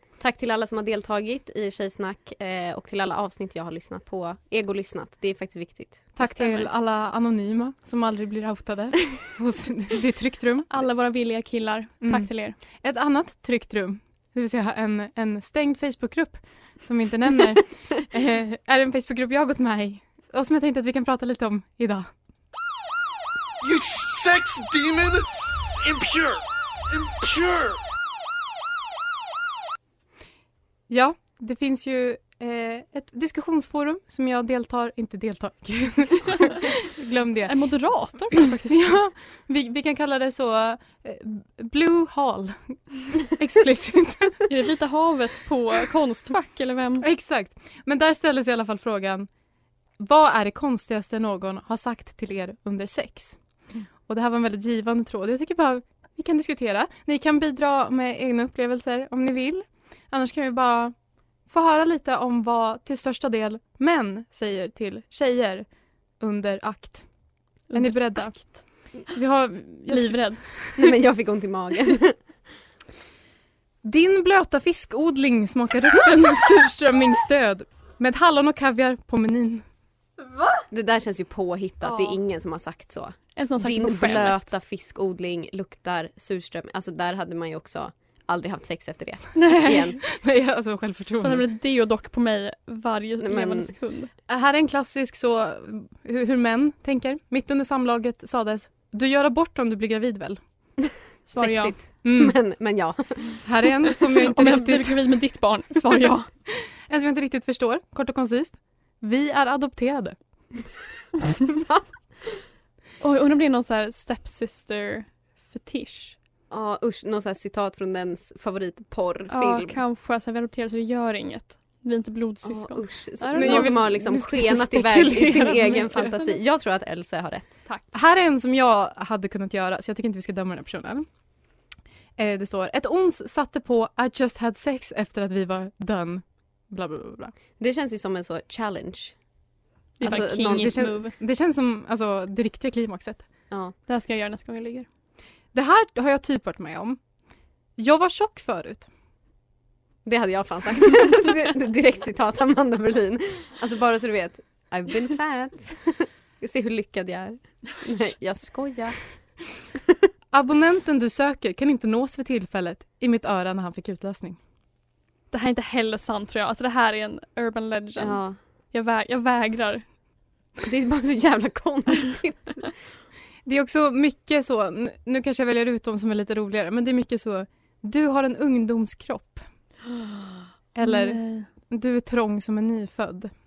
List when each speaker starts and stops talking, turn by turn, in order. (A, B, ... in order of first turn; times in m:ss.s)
0:00.2-0:06.1 A
0:06.2-0:10.7 B
0:06.2-0:06.7 C
0:10.7-0:12.6 C
0:12.0-0:22.1 B
0:23.6-0:27.8 D
0:30.9-0:37.6 B
0:37.5-0:38.9 C
0:38.7-0:44.5 B
0:44.5-0:47.0 C
0:47.0-0:49.3 B
0:50.0-0:53.4 B
0:54.0-1:00.9 B
1:01.5-1:05.6 B
1:06.2-1:07.1 B
1:07.7-1:08.6 C
1:07.7-1:10.9 B
1:09.9-1:10.4 C
1:10.8-1:12.2 A
1:13.8-1:19.6 B
1:20.7-1:30.0 A
1:21.8-1:22.2 C
1:23.4-1:24.5 C
1:29.4-1:30.0 C
1:30.1-1:31.5 B
1:31.2-1:34.1 C
1:33.2-1:33.7 A
1:34.3-1:40.4 B
1:40.9-1:43.4 A
1:41.3-1:41.8 C
1:42.0-1:42.4 B
1:43.4-1:45.0 B
1:44.2-1:46.3 C
1:46.9-1:50.2 B
1:51.5-1:51.8 A
1:53.0-1:56.2 C
1:56.5-1:59.8 A
1:59.3-2:03.8 C
2:02.4-2:07.6 A
2:03.4-2:06.1 B
2:05.7-2:06.3 C
2:07.7-2:07.9 C
2:07.9-2:11.1 B
2:12.2-2:17.3 B
2:17.6-2:19.2 A
2:20.0-2:21.2 C
2:20.0-2:23.3 B
2:20.0-2:20.9 A
2:23.5-2:23.8 A
2:23.9-2:24.9 C
2:25.5-2:27.0 B
2:27.8-2:28.9 B
2:30.0-2:39.0 A
2:40.3-2:44.4 B
2:45.3-2:49.8 C
2:48.0-2:48.4 A
2:50.6-2:52.7 A
2:53.5-2:59.4 B
3:00.8-3:03.3 B
3:00.8-3:01.5 C